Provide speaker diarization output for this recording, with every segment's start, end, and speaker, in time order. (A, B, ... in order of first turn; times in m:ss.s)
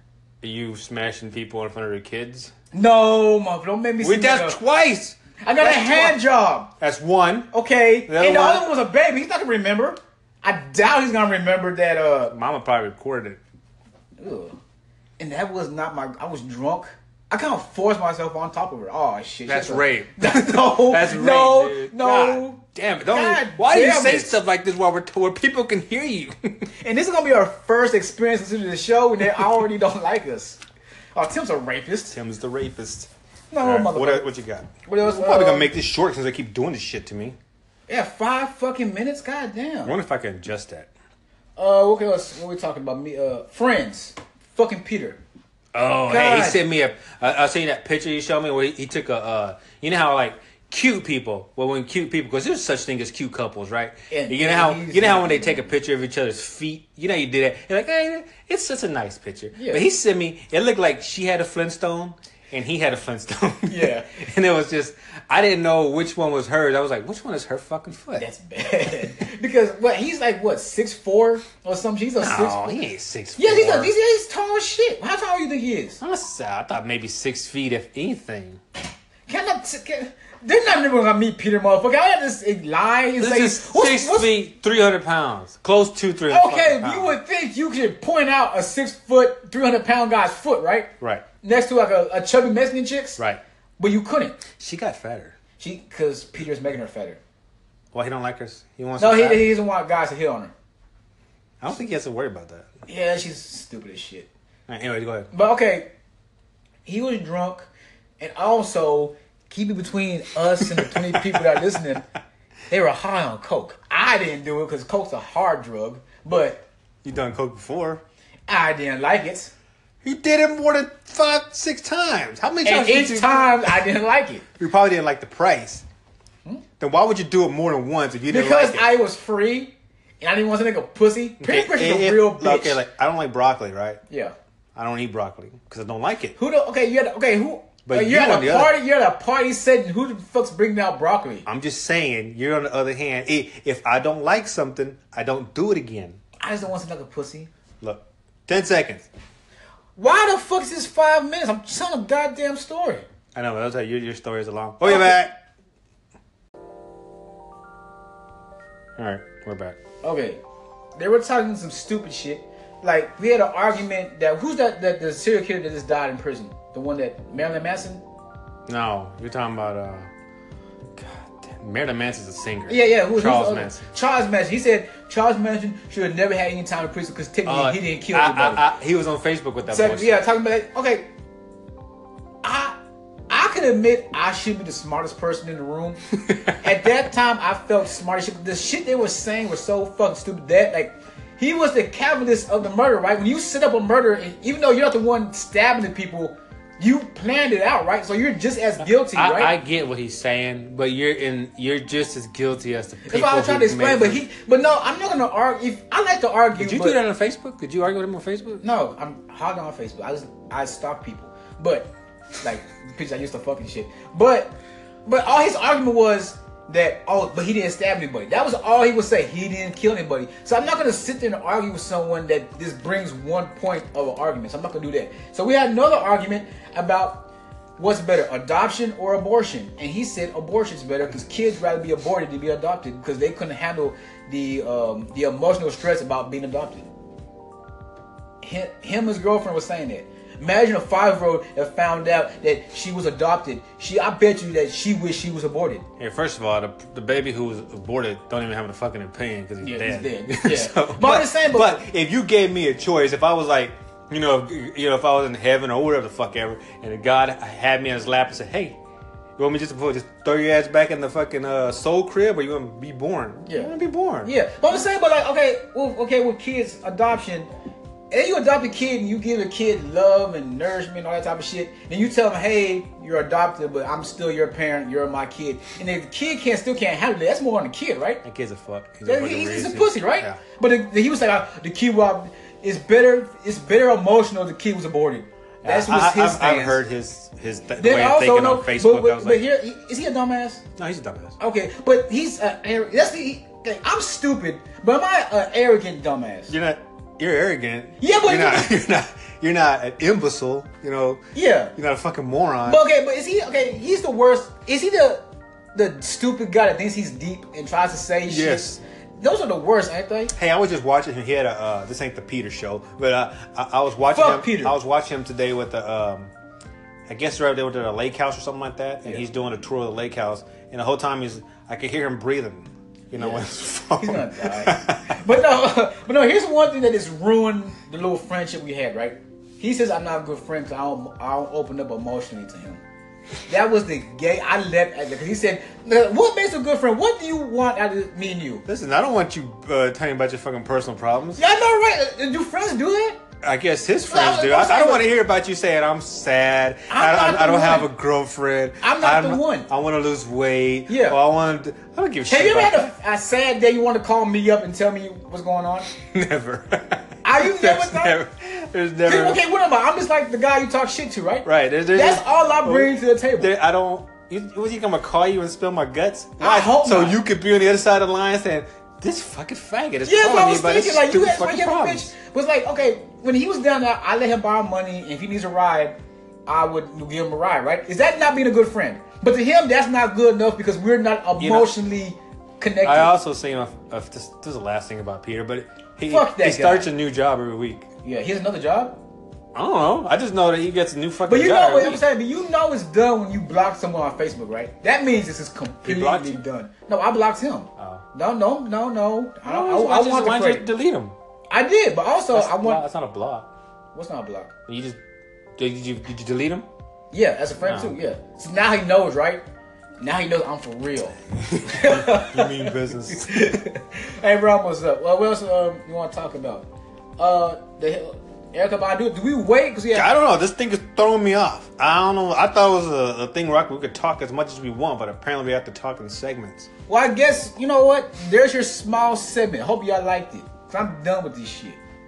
0:00.4-0:02.5 A
0:02.7-0:04.6 B
0:04.0-0:06.2 A
0:05.4-0:06.7 B
0:06.8-0:07.5 A
0:07.5-0:12.3 B
0:08.1-0:08.7 A
0:12.3-0:13.4 A
0:14.2-0:14.6 B
0:15.2-0:24.4 B
0:19.5-0:26.7 A
0:26.8-0:30.6 B
0:31.2-0:32.2 B
0:32.1-0:33.1 A
0:33.5-0:34.3 B
0:33.6-0:37.4 A
0:34.8-0:35.7 B
0:37.9-0:40.0 B
0:39.8-0:40.9 A
0:41.6-0:45.2 B
0:45.7-1:08.3 A
0:46.1-0:46.6 B
0:54.1-0:55.7 B
0:59.6-0:59.9 B
1:03.7-1:04.1 B
1:08.2-1:12.8 B
1:12.2-1:13.9 A
1:13.4-1:16.0 B
1:16.0-1:18.6 A
1:19.3-1:24.3 B
1:23.2-1:27.2 A
1:26.3-1:30.9 B
1:31.4-1:33.2 B
1:33.8-1:34.4 B
1:34.5-1:35.4 A
1:35.6-1:37.2 B
1:37.9-1:39.5 A
1:39.0-1:40.5 B
1:41.6-1:42.7 A
1:42.9-1:44.3 B
1:44.7-1:45.3 A
1:45.3-1:45.9 B
1:46.8-1:52.1 B
1:50.7-1:51.6 A
1:52.7-1:56.7 B
1:57.0-1:58.0 A
1:58.5-1:59.5 B
2:00.0-2:03.8 A
2:02.6-2:04.4 B
2:04.6-2:05.8 A
2:06.8-2:08.9 A
2:08.3-2:12.8 B
2:11.4-2:14.0 A
2:14.1-2:14.4 B
2:14.8-2:16.4 A
2:16.4-2:21.5 B
2:17.8-2:18.8 A
2:21.5-2:26.2 A
2:26.4-2:27.5 B
2:27.8-2:29.1 A
2:30.0-2:33.1 B
2:33.3-2:35.4 A
2:34.8-2:35.2 B
2:39.0-2:39.8 A
2:40.0-2:40.4 B
2:41.0-2:48.0 B
2:48.7-2:50.1 A
2:51.0-2:53.8 A
2:52.7-2:58.6 B
2:57.5-3:00.2 A
2:59.7-3:01.1 B
3:02.4-3:02.8 B
3:03.3-3:06.0 B
3:06.2-3:06.6 A
3:06.6-3:19.6 B
3:18.8-3:24.2 A
3:23.1-3:27.0 B
3:26.6-3:28.6 A
3:28.6-3:47.3 B
3:47.8-3:56.9 B
3:58.4-4:05.9 B
4:06.0-4:18.8 A
4:09.6-4:11.8 B
4:19.4-4:24.3 A
4:23.5-4:23.7 B
4:24.2-4:27.5 B
4:28.1-4:38.2 B
4:38.2-4:40.4 A
4:39.0-4:46.8 B
4:45.6-4:49.4 A
4:47.8-4:50.6 B
4:50.8-4:51.4 A
4:51.4-4:56.5 B
4:56.5-5:02.8 A
4:58.0-4:58.7 B
5:01.3-5:01.7 B
5:02.6-5:10.3 B
5:08.3-5:08.8 A
5:10.4-5:16.3 A
5:14.1-5:14.8 B
5:17.1-5:25.2 A
5:23.1-5:23.4 B
5:24.0-5:32.8 B
5:33.5-5:38.6 B
5:38.7-5:41.4 A
5:41.4-5:43.2 B
5:43.4-5:52.9 A
5:44.1-5:45.1 B
5:46.9-5:47.9 B
5:48.8-5:49.7 B
5:50.9-5:51.2 B
5:52.3-5:55.9 B
5:56.0-5:59.4 A
5:57.2-5:58.2 B
5:59.0-6:03.5 B
6:01.4-6:12.1 A
6:06.4-6:07.2 B
6:10.0-6:23.1 B
6:21.4-6:21.7 A
6:22.8-6:27.9 A
6:26.1-6:26.9 B
6:28.0-6:29.0 B
6:29.6-6:32.0 A
6:31.3-6:40.7 B
6:35.8-6:36.4 A
6:37.8-6:38.0 A
6:39.4-6:41.2 A
6:41.5-6:42.8 B
6:42.3-6:43.5 A
6:43.9-6:44.5 B
6:44.7-6:45.0 A
6:45.6-6:46.7 A
6:47.1-6:49.4 B
6:47.6-6:48.0 A
6:50.0-7:00.1 B
6:51.4-6:53.6 A
6:59.9-7:06.7 A
7:06.9-7:11.8 B